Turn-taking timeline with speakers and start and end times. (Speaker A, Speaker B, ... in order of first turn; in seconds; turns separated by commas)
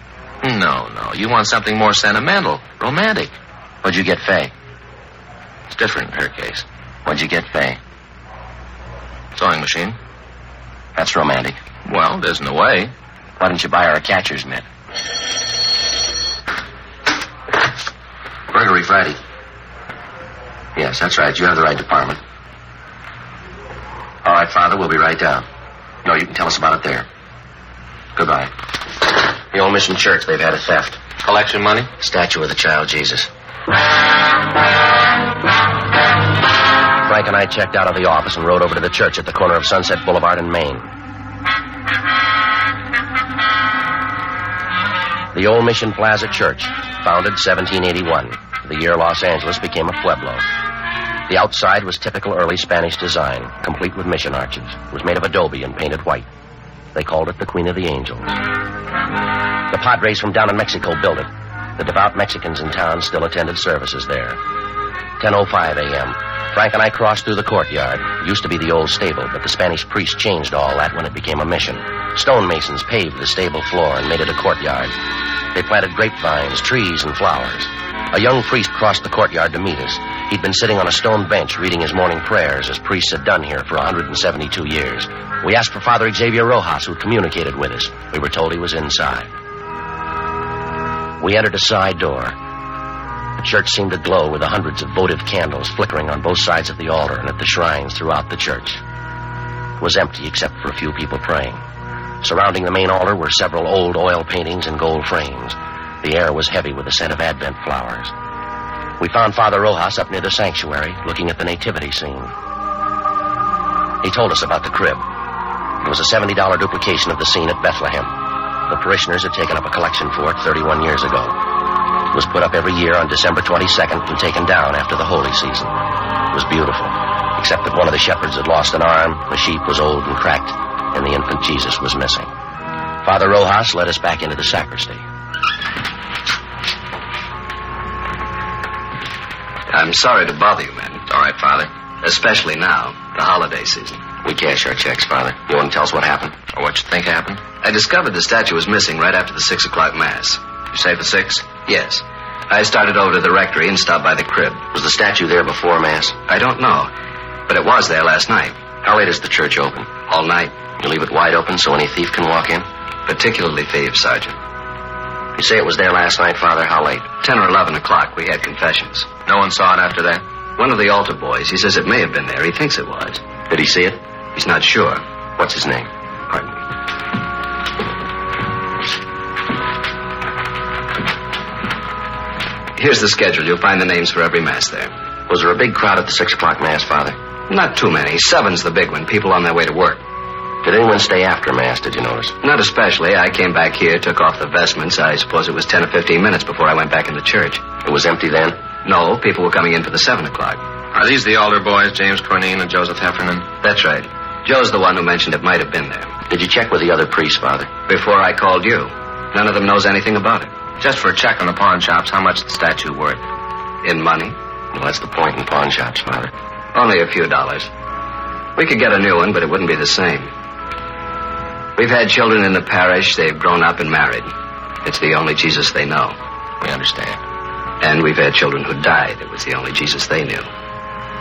Speaker A: 0.4-3.3, Speaker B: 3.8-4.5, Speaker A: 5.7-6.7, Speaker B: 7.0-7.8, Speaker A: 9.3-10.0, Speaker B: 10.9-11.6, Speaker A: 11.9-12.9, Speaker B: 13.4-14.7, Speaker B: 18.5-19.2, Speaker B: 20.8-22.2, Speaker B: 24.2-25.5, Speaker B: 26.0-27.1, Speaker B: 28.1-28.5, Speaker B: 29.5-31.0, Speaker A: 31.2-31.9, Speaker B: 32.0-33.3, Speaker B: 37.0-40.9, Speaker B: 45.3-50.5, Speaker B: 51.3-56.3, Speaker B: 56.9-58.4, Speaker B: 59.7-64.4, Speaker B: 65.2-74.9, Speaker B: 75.5-89.3, Speaker B: 91.2-92.4, Speaker B: 93.4-98.8, Speaker B: 99.8-101.6, Speaker B: 102.2-108.1, Speaker B: 109.0-112.3, Speaker B: 114.0-115.0, Speaker B: 115.8-118.1, Speaker B: 118.7-121.4, Speaker B: 122.1-125.7, Speaker B: 126.3-132.3, Speaker B: 133.0-135.0, Speaker C: 139.7-141.1, Speaker A: 141.1-141.7, Speaker C: 142.0-144.0, Speaker B: 144.2-146.4, Speaker A: 146.5-147.4, Speaker C: 147.6-150.4, Speaker A: 150.7-151.4, Speaker C: 151.7-154.7, Speaker B: 154.7-156.2, Speaker C: 156.3-156.9, Speaker C: 157.5-158.6, Speaker B: 158.8-159.9, Speaker C: 160.1-160.6, Speaker B: 160.8-162.7, Speaker C: 163.1-164.4, Speaker B: 165.4-167.1, Speaker C: 167.2-169.1, Speaker A: 169.3-170.2, Speaker C: 170.6-173.2, Speaker B: 173.5-174.0, Speaker C: 174.3-175.0, Speaker B: 175.4-175.9, Speaker C: 182.8-184.9, Speaker B: 185.3-187.2, Speaker C: 187.5-190.0, Speaker B: 190.6-192.3, Speaker C: 192.4-197.6, Speaker B: 197.8-198.6, Speaker C: 198.8-200.6, Speaker A: 200.9-203.5, Speaker C: 203.6-206.1, Speaker B: 206.3-207.7, Speaker C: 207.9-210.5, Speaker A: 210.8-213.2, Speaker C: 213.8-214.4, Speaker B: 214.7-216.3, Speaker C: 216.7-217.7, Speaker C: 218.6-220.3, Speaker C: 221.8-224.3, Speaker C: 224.8-226.2, Speaker A: 226.6-227.2, Speaker C: 227.8-230.5